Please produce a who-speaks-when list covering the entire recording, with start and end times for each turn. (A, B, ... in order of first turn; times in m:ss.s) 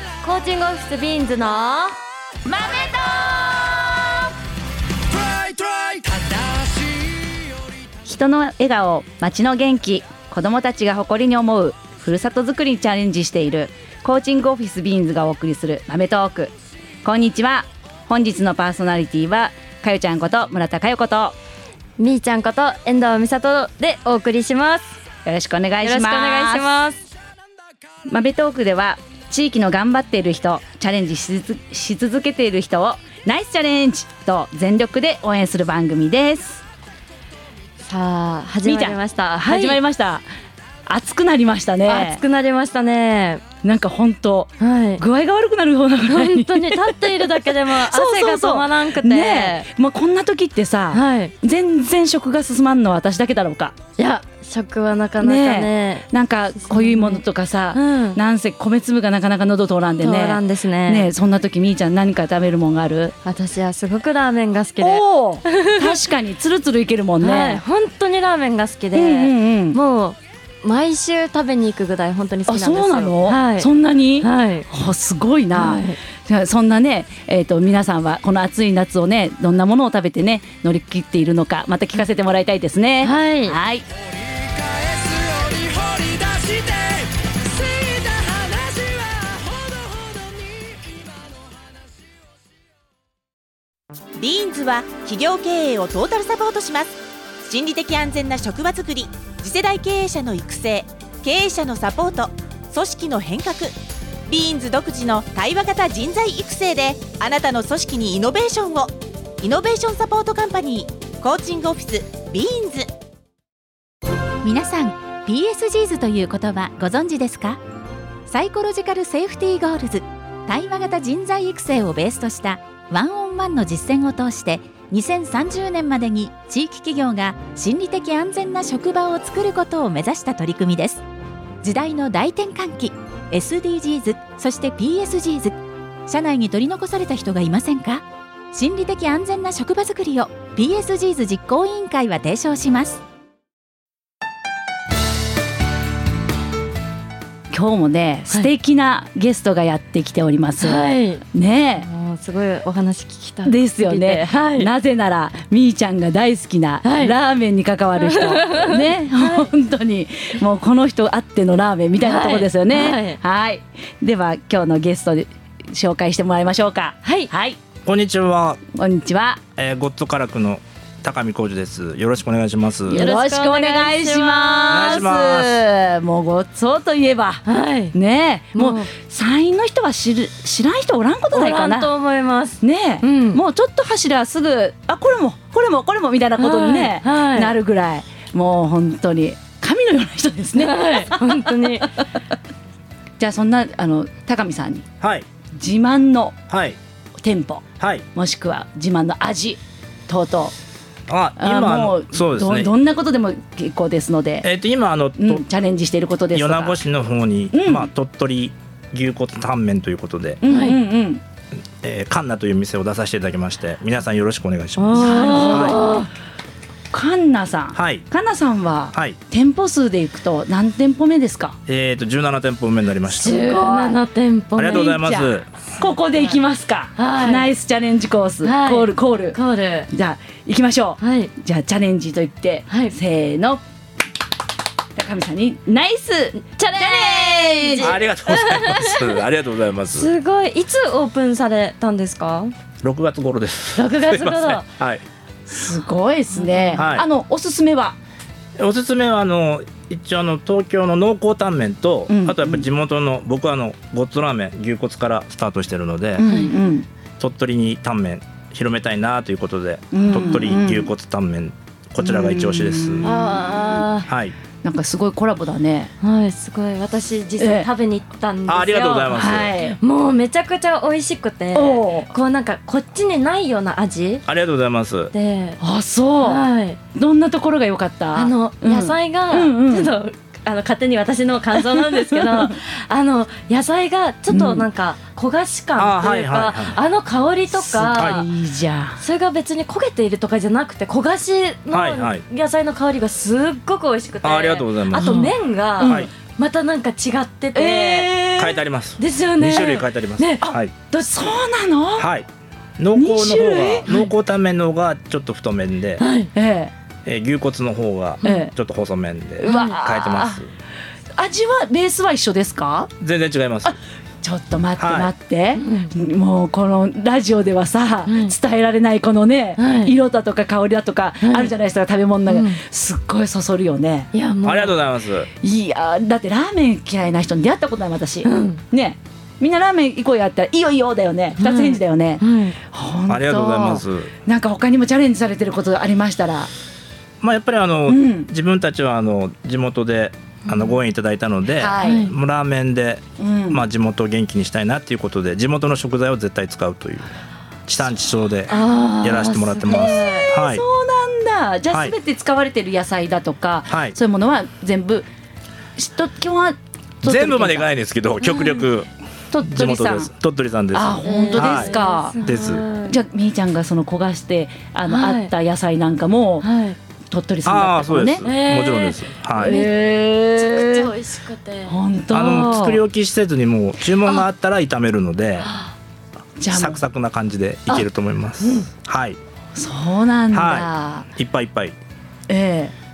0:00.2-0:02.0 A
0:02.5-0:03.9 B
0:08.0-0:16.5 B
0:17.0-0:21.4 B
0:22.0-0:25.0 A
0:25.2-0:26.8 B
0:25.8-0:27.0 A
0:28.1-0:36.6 B
0:37.8-0:39.8 A
0:38.6-0:40.2 B
0:40.9-0:42.2 B
0:41.8-0:43.4 A
0:43.6-0:53.8 B
0:44.6-0:45.0 A
0:46.0-0:49.7 A
0:50.9-0:51.3 A
0:54.0-0:56.1 A
0:55.2-1:03.1 B
0:56.6-0:58.2 A
1:00.0-1:01.1 A
1:03.2-1:06.0 A
1:04.8-1:07.6 B
1:07.2-1:14.7 A
1:08.9-1:09.8 B
1:12.5-1:23.8 B
1:15.5-1:16.0 A
1:23.0-1:23.6 A
1:24.8-1:31.0 B
1:34.2-1:43.7 C
1:44.3-1:52.9 C
1:54.4-1:57.6 D
1:58.3-2:11.0 D
2:11.6-2:15.5 D
2:16.0-2:23.0 D
2:27.5-2:31.9 B
2:30.6-2:31.2 A
2:31.8-2:34.7 A
2:33.4-2:47.6 B
2:36.8-2:37.1 A
2:38.0-2:39.5 A
2:42.0-2:43.2 A
2:47.0-2:47.3 A
2:47.8-2:48.6 E
2:48.7-2:49.4 B
2:49.6-2:53.1 E
2:52.9-3:01.9 B
2:52.9-2:55.0 A
2:54.7-2:55.6 E
2:57.4-2:57.9 A
2:58.5-2:58.9 A
3:01.3-3:03.4 A
3:02.6-3:11.8 B
3:06.4-3:07.5 A
3:10.6-3:11.9 A
3:13.2-3:14.8 B
3:15.0-3:15.2 E
3:15.5-3:16.4 B
3:16.5-3:16.8 E
3:17.2-3:20.5 B
3:17.8-3:18.0 E
3:21.1-3:22.7 E
3:21.4-3:24.5 B
3:24.4-3:25.4 E
3:25.2-3:26.8 B
3:26.3-3:30.4 E
3:27.5-3:27.9 B
3:30.4-3:31.2 B
3:30.5-3:30.8 A
3:31.8-3:35.8 E
3:34.8-3:36.1 A
3:34.9-3:35.9 B
3:36.9-3:41.6 B
3:37.7-3:38.0 E
3:38.9-3:39.2 E
3:41.7-3:43.5 E
3:43.1-3:45.0 A
3:43.2-3:44.0 B
3:44.6-3:45.5 E
3:44.7-3:49.4 B
3:47.0-3:47.5 A
3:48.4-3:49.9 A
3:49.9-3:53.6 B
3:51.0-3:51.3 A
3:52.7-3:53.0 A
3:54.9-3:58.0 B
3:56.4-3:59.2 A
3:57.8-4:00.1 E
3:59.9-4:02.5 A
4:02.8-4:05.0 E
4:03.8-4:04.7 A
4:05.5-4:08.0 B
4:06.3-4:06.8 A
4:06.8-4:07.0 E
4:08.6-4:16.3 E
4:12.1-4:12.6 B
4:16.2-4:16.9 B
4:16.2-4:16.5 A
4:17.2-4:23.0 E
4:19.9-4:20.9 B
4:22.0-4:23.9 B
4:23.0-4:24.1 A
4:24.1-4:24.4 E
4:24.6-4:25.9 B
4:26.0-4:34.2 A
4:27.4-4:27.7 B
4:28.5-4:29.5 E
4:29.1-4:29.8 B
4:31.5-4:32.1 B
4:34.2-4:35.1 E
4:35.1-4:35.6 A
4:35.6-4:39.9 B
4:36.2-4:36.8 A
4:38.1-4:48.3 A
4:41.5-4:42.6 B
4:44.3-4:44.6 B
4:45.8-4:46.8 E
4:47.5-4:49.0 B
4:47.9-4:48.2 E
4:49.0-4:58.1 A
4:51.7-4:52.2 E
4:54.2-4:56.1 E
4:54.9-4:56.1 B
4:57.5-4:58.6 B
4:58.3-5:00.7 E
4:59.0-5:01.1 A
5:00.4-5:02.1 B
5:02.0-5:06.0 E
5:02.9-5:04.1 B
5:06.0-5:06.3 A
5:06.3-5:06.7 B
5:07.0-5:10.5 E
5:08.2-5:08.5 A
5:08.2-5:08.5 B
5:09.4-5:10.4 B
5:09.4-5:09.8 A
5:11.2-5:12.9 B
5:13.0-5:13.8 E
5:13.6-5:24.1 B
5:14.8-5:15.1 E
5:15.5-5:15.9 A
5:18.1-5:18.3 A
5:19.6-5:19.9 A
5:21.2-5:21.5 A
5:22.3-5:22.6 A
5:24.1-5:24.8 A
5:24.4-5:25.3 E
5:25.4-5:36.5 B
5:28.2-5:28.6 A
5:31.4-5:32.6 A
5:33.1-5:34.1 E
5:37.2-5:47.1 E
5:37.9-5:38.3 B
5:40.4-5:40.7 A
5:41.6-5:42.1 B
5:41.8-5:42.1 A
5:43.2-5:43.6 B
5:47.7-5:50.6 E
5:48.5-5:50.3 A
5:49.1-5:55.0 B
5:53.7-5:54.0 E
5:55.8-5:57.7 B
5:57.0-5:58.9 E
5:58.2-5:58.6 A
5:59.3-6:00.1 B
5:59.4-6:02.6 E
6:00.7-6:02.2 B
6:01.0-6:03.0 A
6:02.7-6:06.5 B
6:04.9-6:05.3 A
6:06.4-6:06.8 A
6:07.1-6:08.2 B
6:07.4-6:09.6 E
6:08.2-6:09.8 A
6:09.4-6:10.9 B
6:10.3-6:12.7 A
6:11.6-6:12.8 B
6:12.1-6:15.5 E
6:15.4-6:15.7 A
6:16.4-6:16.8 B
6:16.5-6:19.2 E
6:18.4-6:18.7 A
6:19.5-6:21.1 B
6:20.3-6:21.8 E
6:22.3-6:22.7 B